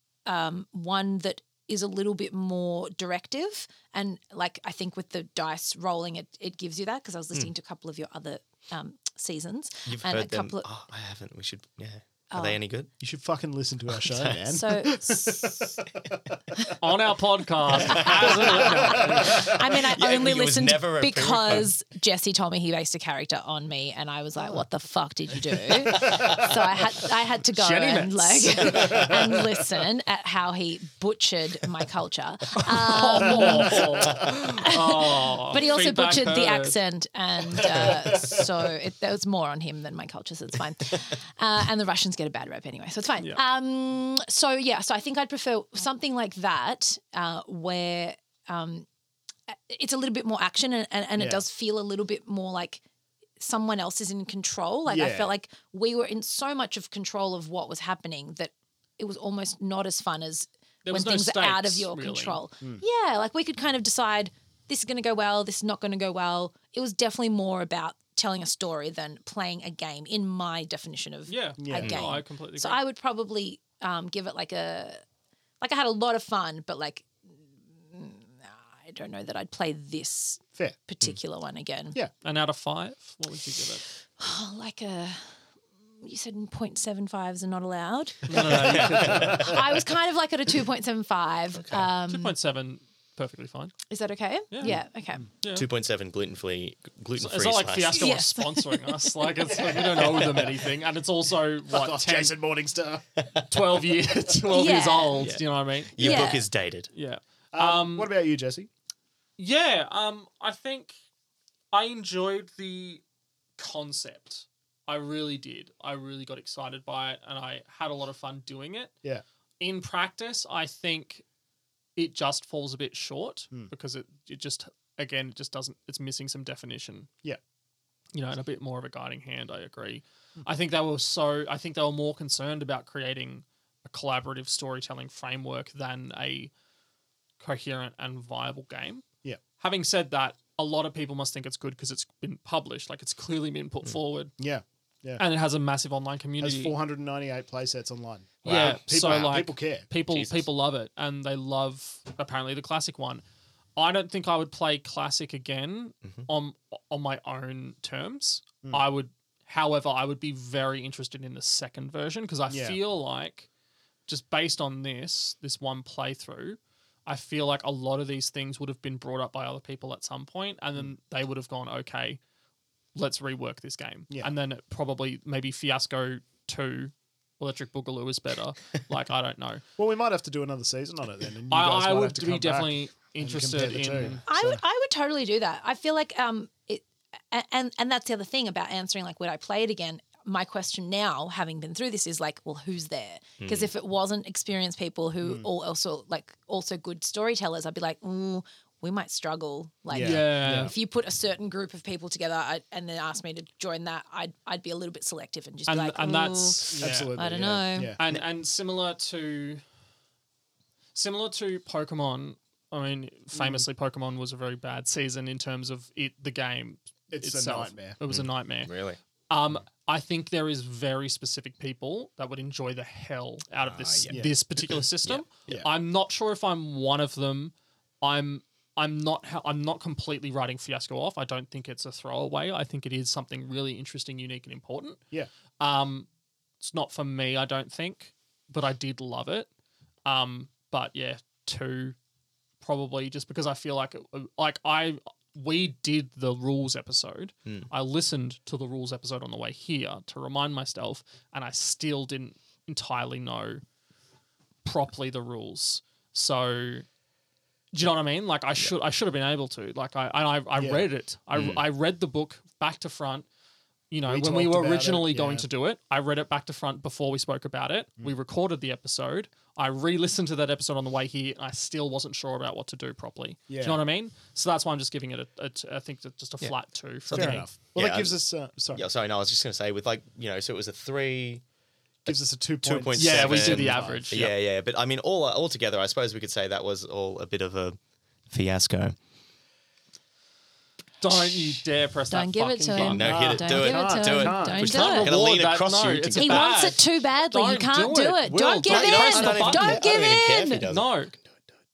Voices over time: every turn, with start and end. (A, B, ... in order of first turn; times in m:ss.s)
0:00.3-0:10.6 A
0:09.9-0:12.9 B
0:12.3-0:12.6 A
0:13.0-0:16.6 C
0:13.9-0:14.4 B
0:14.5-0:15.4 A
0:16.8-0:19.5 D
0:17.7-0:18.6 B
0:17.8-0:18.1 C
0:17.9-0:48.9 A
0:18.6-0:19.6 C
0:19.2-0:21.7 B
0:27.5-0:29.3 D
0:32.6-0:36.8 D
0:33.3-0:34.4 C
0:37.5-0:38.4 C
0:49.5-0:52.8 A
0:51.2-0:51.4 C
0:53.4-1:15.0 A
0:54.9-0:55.3 C
1:00.8-1:02.4 D
1:11.3-1:12.8 D
1:11.6-1:12.0 C
1:15.6-1:17.1 A
1:17.9-1:22.0 A
1:22.2-1:23.9 D
1:24.2-1:25.4 A
1:26.0-1:32.3 A
1:28.3-1:29.5 D
1:28.4-1:29.5 B
1:32.0-1:33.7 D
1:33.9-1:35.3 A
1:34.5-1:34.8 D
1:35.4-1:35.7 D
1:35.5-1:38.1 B
1:37.2-1:42.4 D
1:37.9-1:39.5 A
1:39.5-1:40.6 C
1:41.7-1:43.0 C
1:43.2-1:43.4 B
1:43.5-1:46.3 D
1:44.5-1:45.3 A
1:45.2-1:46.9 B
1:46.0-1:46.5 A
1:46.9-1:48.1 D
1:47.5-1:48.7 C
1:49.4-1:50.9 D
1:51.7-1:53.0 D
1:53.6-1:58.9 D
1:59.6-2:01.2 D
2:02.0-2:07.1 D
2:08.1-2:16.5 D
2:17.4-2:19.0 D
2:19.6-2:24.4 D
2:24.4-2:25.2 C
2:25.2-2:26.8 D
2:26.4-2:29.9 C
2:28.4-2:29.3 B
2:28.4-2:33.2 D
2:30.1-2:30.4 B
2:33.8-2:43.5 D
2:42.5-2:42.8 C
2:44.1-2:52.2 D
2:53.0-2:59.6 D
2:59.8-3:04.6 C
3:01.5-3:04.2 D
3:04.3-3:27.9 A
3:13.4-3:13.7 B
3:15.2-3:15.5 C
3:19.9-3:20.7 C
3:20.0-3:20.7 D
3:25.7-3:27.1 D
3:26.7-3:28.2 C
3:28.0-3:29.6 D
3:31.0-3:38.8 D
3:33.4-3:33.6 C
3:37.1-3:38.0 C
3:38.1-3:39.0 B
3:39.3-3:55.0 D
3:43.6-3:45.2 B
3:44.1-3:44.4 C
3:55.6-3:56.1 D
3:56.6-3:59.5 D
4:00.1-4:02.0 D
4:02.6-4:13.6 D
4:14.6-4:16.9 D
4:17.7-4:23.3 D
4:20.6-4:20.9 C
4:21.3-4:21.6 B
4:23.9-4:37.5 D
4:24.1-4:25.5 C
4:33.5-4:33.8 C
4:37.1-4:38.2 B
4:37.1-4:38.8 C
4:38.7-4:41.4 B
4:42.0-4:47.8 B
4:42.1-4:44.1 C
4:43.0-4:44.3 D
4:48.3-4:49.0 B
4:51.0-4:53.1 D
4:52.1-4:55.2 A
4:52.8-4:56.7 B
4:53.0-4:54.9 C
4:54.6-4:59.9 D
4:56.2-5:00.7 A
4:58.6-5:01.4 B
5:00.6-5:01.2 D